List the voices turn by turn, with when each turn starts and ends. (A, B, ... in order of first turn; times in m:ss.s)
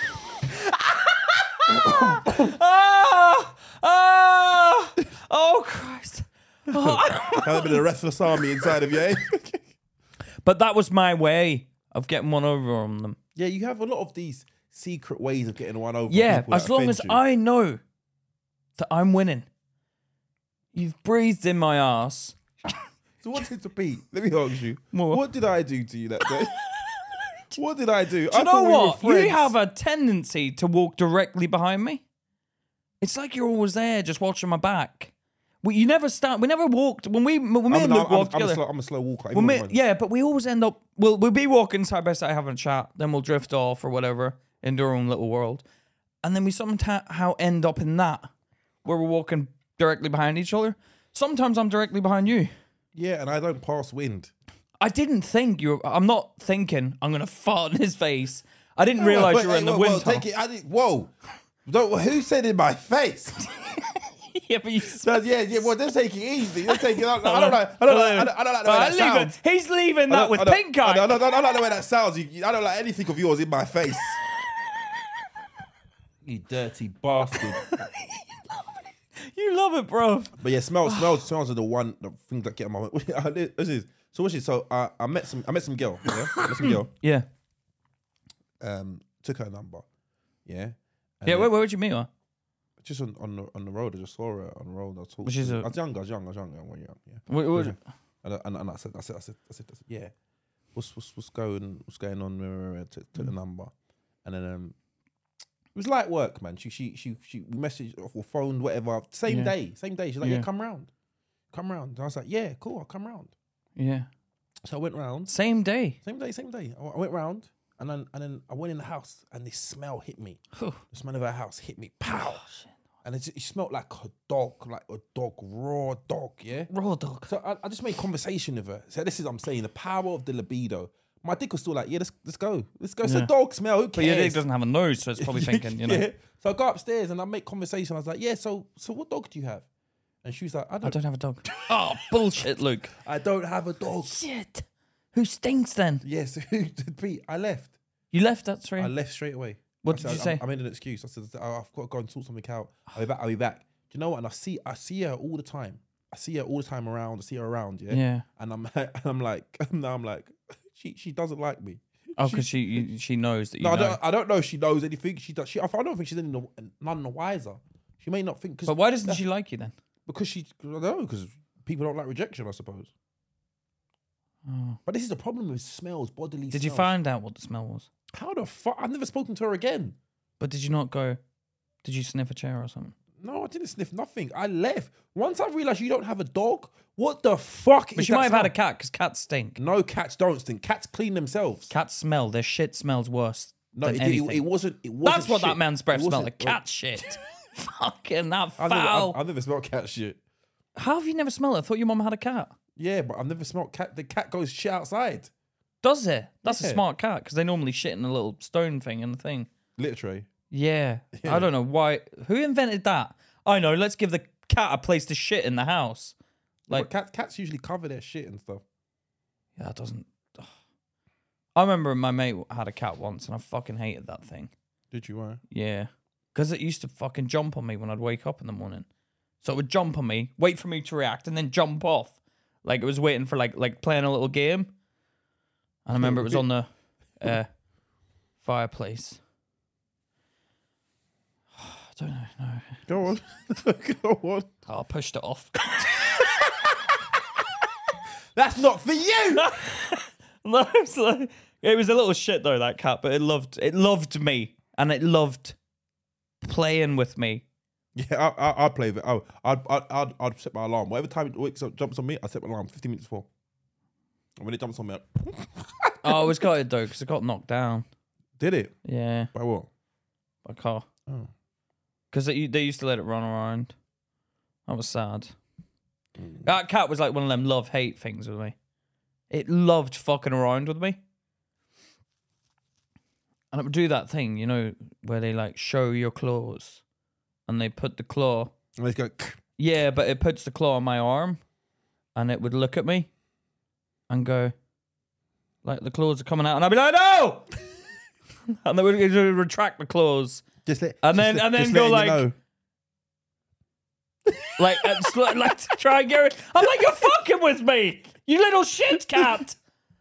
0:00.4-0:07.8 A
0:01.7-0:02.5 B
0:06.7-0:09.6 B
0:10.4-0:13.2 A
0:13.4-0:17.2 B
0:16.1-0:17.8 A
0:18.8-0:19.5 A
0:20.7-0:22.4 A
0:23.2-0:26.6 B
0:24.9-0:25.2 A
0:26.3-0:27.2 A
0:27.6-0:29.5 B
0:28.3-0:32.0 A
0:33.0-0:38.6 A
0:37.7-0:39.8 B
0:39.3-0:45.6 A
0:46.2-0:48.3 A
0:48.8-0:52.5 A
0:53.0-0:54.3 B
0:54.8-1:00.2 A
0:59.0-1:01.1 B
1:01.6-1:03.4 B
1:03.5-1:05.1 A
1:04.9-1:09.4 B
1:06.7-1:11.1 A
1:10.1-1:14.2 B
1:16.2-1:17.6 B
1:17.3-1:20.3 A
1:20.4-1:26.9 B
1:20.8-1:21.2 A
1:26.4-1:27.3 A
1:28.6-1:29.8 B
1:30.5-1:31.5 B
1:31.2-1:32.1 A
1:32.8-1:40.1 B
1:35.2-1:35.7 A
1:37.3-1:37.8 A
1:40.8-1:43.7 B
1:44.2-1:44.8 B
1:45.8-1:50.9 B
1:49.3-1:49.5 A
1:50.2-1:50.5 A
1:51.5-1:53.3 B
1:53.8-1:54.1 A
1:54.6-1:55.3 B
1:55.3-1:56.0 A
1:56.0-2:00.4 B
2:00.5-2:00.8 A
2:00.9-2:02.4 B
2:02.1-2:02.7 A
2:03.0-2:06.7 B
2:06.7-2:07.3 A
2:07.3-2:14.4 B
2:13.0-2:13.3 A
2:14.0-2:16.1 A
2:15.2-2:19.7 B
2:20.2-2:21.0 B
2:20.8-2:22.9 A
2:22.9-2:24.2 B
2:24.0-2:26.0 A
2:26.0-2:27.7 B
2:28.1-2:28.9 A
2:28.8-2:42.8 B
2:29.8-2:30.4 A
2:37.9-2:38.3 A
2:42.2-2:44.0 A
2:43.6-2:49.2 B
2:48.7-2:49.7 A
2:50.1-2:52.9 B
2:54.5-2:54.8 A
2:54.9-2:56.9 B
2:56.5-2:57.9 A
2:58.1-3:00.0 B
3:00.4-3:01.2 A
3:01.8-3:03.0 A
3:03.2-3:08.5 B
3:08.0-3:09.6 A
3:09.6-3:11.7 B
3:11.7-3:14.4 A
3:13.7-3:16.6 B
3:15.0-3:19.2 A
3:18.6-3:20.2 B
3:20.8-3:22.5 A
3:22.8-3:25.3 B
3:25.8-3:29.5 A
3:26.5-3:26.8 B
3:29.8-3:30.3 B
3:30.5-3:36.2 A
3:31.1-3:31.5 B
3:36.7-3:38.6 B
3:39.6-3:40.5 A
3:41.6-3:44.5 A
3:44.9-3:45.4 B
3:45.5-3:48.9 A
3:49.4-3:54.7 A
3:55.8-3:57.5 A
3:56.0-3:56.4 B
3:58.4-3:59.2 A
4:01.6-4:02.9 A
4:02.9-4:04.5 B
4:04.7-4:06.4 A
4:06.1-4:06.7 B
4:08.4-4:09.5 B
4:09.4-4:15.6 A
4:16.4-4:17.4 A
4:18.0-4:23.3 B
4:24.4-4:26.4 B
4:26.0-4:27.9 A
4:28.4-4:28.7 B
4:28.8-4:29.3 A
4:29.3-4:29.7 B
4:30.4-4:30.9 A
4:32.1-4:33.7 A
4:34.7-4:35.3 A
4:36.2-4:36.5 B
4:36.4-4:38.6 A
4:39.3-4:41.0 A
4:43.5-4:46.8 A
4:47.5-4:48.5 A
4:48.8-4:49.4 B
4:49.6-4:51.4 A
4:52.2-4:53.1 A
4:54.1-4:54.5 A
4:55.6-4:57.5 A
4:58.5-5:00.5 A
5:00.6-5:02.4 B
5:01.0-5:02.2 A
5:04.4-5:05.3 B
5:04.6-5:09.6 A